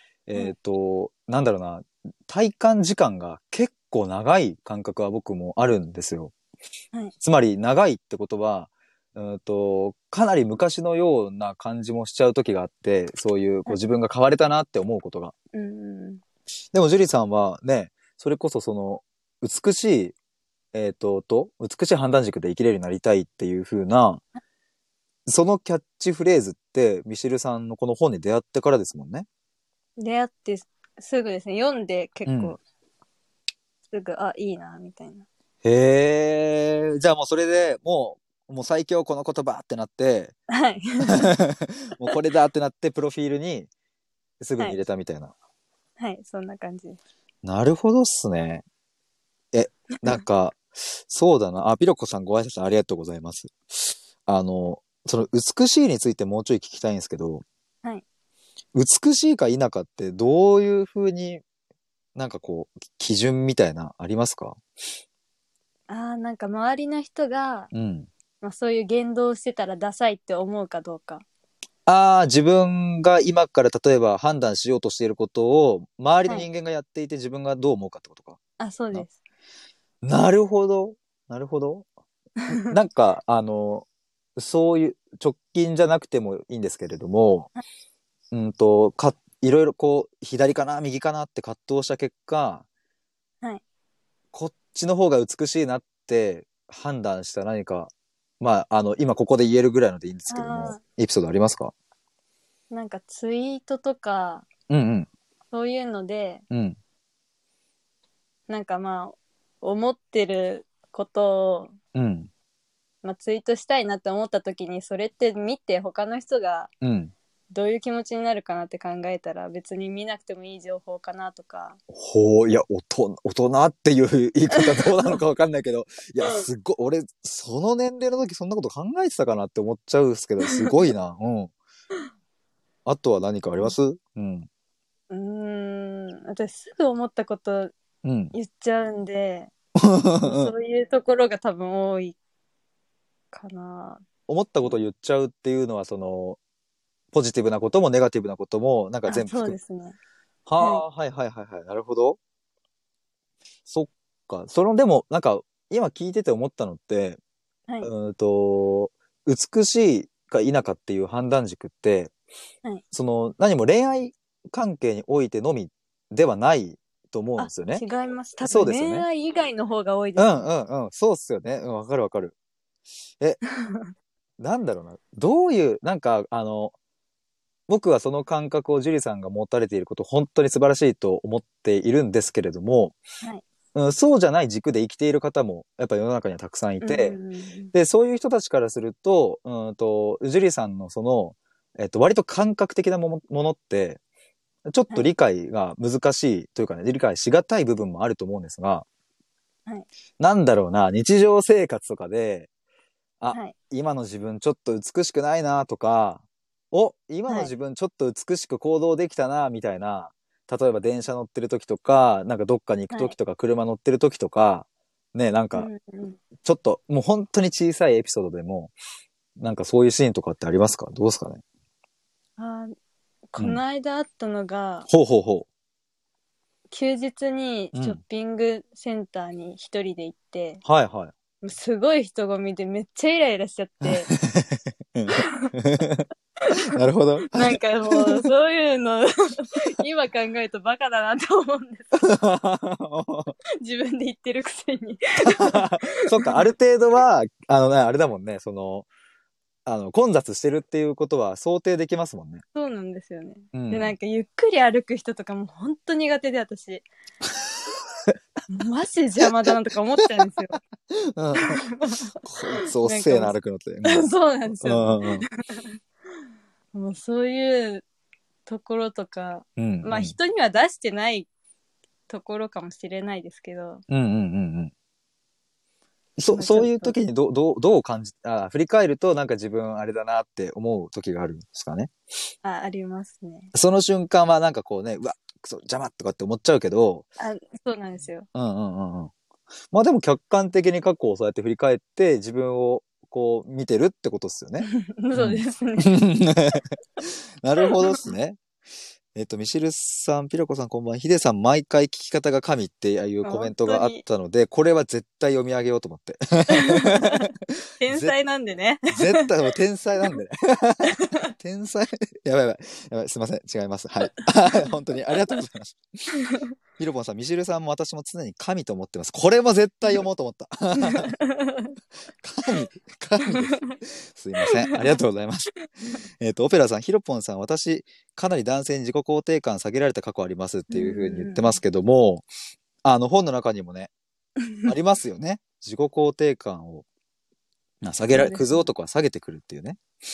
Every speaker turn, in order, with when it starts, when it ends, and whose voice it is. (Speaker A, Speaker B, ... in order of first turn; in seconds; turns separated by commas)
Speaker A: 0.3-6.3, Speaker A: 7.2-15.3, Speaker B: 15.5-16.2, Speaker A: 16.7-20.1, Speaker A: 20.7-24.2, Speaker A: 25.3-29.3, Speaker B: 30.0-32.6, Speaker A: 32.3-32.6, Speaker B: 33.9-35.2, Speaker A: 35.6-40.4, Speaker B: 40.5-41.3, Speaker A: 41.1-43.7, Speaker A: 44.4-45.3, Speaker B: 46.0-47.0, Speaker A: 47.4-48.6, Speaker A: 49.5-57.5, Speaker A: 58.7-61.4, Speaker A: 62.1-64.6, Speaker B: 65.9-67.7, Speaker A: 67.7-68.1, Speaker B: 68.4-71.2, Speaker A: 71.9-78.4, Speaker B: 78.6-79.2, Speaker A: 80.0-81.9, Speaker A: 82.5-87.5, Speaker A: 88.3-92.7, Speaker A: 94.3-101.7, Speaker B: 100.3-100.8, Speaker B: 102.7-104.5, Speaker A: 104.7-105.1, Speaker B: 105.5-106.4, Speaker A: 106.5-106.8, Speaker B: 108.5-111.7, Speaker A: 112.0-112.3, Speaker B: 113.0-116.7, Speaker A: 116.8-117.1, Speaker B: 117.5-121.8, Speaker A: 121.9-131.5, Speaker B: 124.6-125.2, Speaker A: 132.9-134.5, Speaker B: 135.1-137.7, Speaker A: 138.0-138.3, Speaker B: 138.3-139.5, Speaker A: 139.8-140.5, Speaker B: 140.2-142.2, Speaker B: 143.3-144.0, Speaker A: 144.3-146.4, Speaker A: 147.1-149.6, Speaker B: 149.1-150.0, Speaker A: 150.5-152.2, Speaker A: 153.7-157.2, Speaker A: 157.8-162.1, Speaker A: 162.9-167.8, Speaker B: 167.4-170.5, Speaker A: 168.4-169.1, Speaker A: 170.2-172.3, Speaker B: 173.6-173.9, Speaker A: 174.4-176.8, Speaker A: 177.7-183.0, Speaker A: 183.8-187.2, Speaker B: 186.8-187.7, Speaker A: 187.7-194.0, Speaker A: 194.7-198.9, Speaker A: 200.2-202.5, Speaker A: 203.2-215.7, Speaker B: 215.6-216.2, Speaker A: 216.4-218.7, Speaker A: 219.4-221.4, Speaker B: 222.4-222.7, Speaker B: 223.3-224.9, Speaker A: 224.9-225.5, Speaker B: 226.7-230.6, Speaker A: 227.7-228.0, Speaker A: 230.6-231.1, Speaker B: 231.4-234.1, Speaker A: 233.8-236.1, Speaker B: 235.3-235.5, Speaker A: 236.7-238.3, Speaker B: 237.3-242.0, Speaker A: 241.9-243.3, Speaker B: 243.6-246.4, Speaker A: 245.2-248.9, Speaker A: 249.7-252.4, Speaker B: 252.6-256.9, Speaker A: 253.5-253.9, Speaker B: 258.5-260.6, Speaker A: 259.2-259.5, Speaker A: 261.1-261.6, Speaker B: 261.4-262.0, Speaker A: 262.2-265.3, Speaker B: 262.8-265.8, Speaker B: 266.7-267.8, Speaker B: 268.5-271.3, Speaker A: 269.6-270.1, Speaker B: 272.1-273.8, Speaker A: 273.9-274.7, Speaker A: 276.2-281.9, Speaker B: 276.3-276.9, Speaker B: 282.4-283.5, Speaker A: 283.5-287.1, Speaker B: 287.2-288.3, Speaker A: 288.3-289.1, Speaker A: 289.7-298.4, Speaker B: 294.7-296.0, Speaker A: 299.1-307.3, Speaker B: 303.2-304.0, Speaker B: 306.5-307.3, Speaker B: 307.8-309.3, Speaker A: 307.9-308.1, Speaker A: 308.9-316.1, Speaker B: 311.0-311.3, Speaker B: 316.1-316.5, Speaker A: 316.8-321.1, Speaker B: 320.8-321.7, Speaker A: 322.2-325.6, Speaker B: 324.5-325.0, Speaker A: 326.2-332.3, Speaker B: 330.7-331.6, Speaker A: 332.8-333.9, Speaker B: 334.5-334.7, Speaker A: 334.6-336.9, Speaker A: 337.8-339.8, Speaker B: 338.1-338.7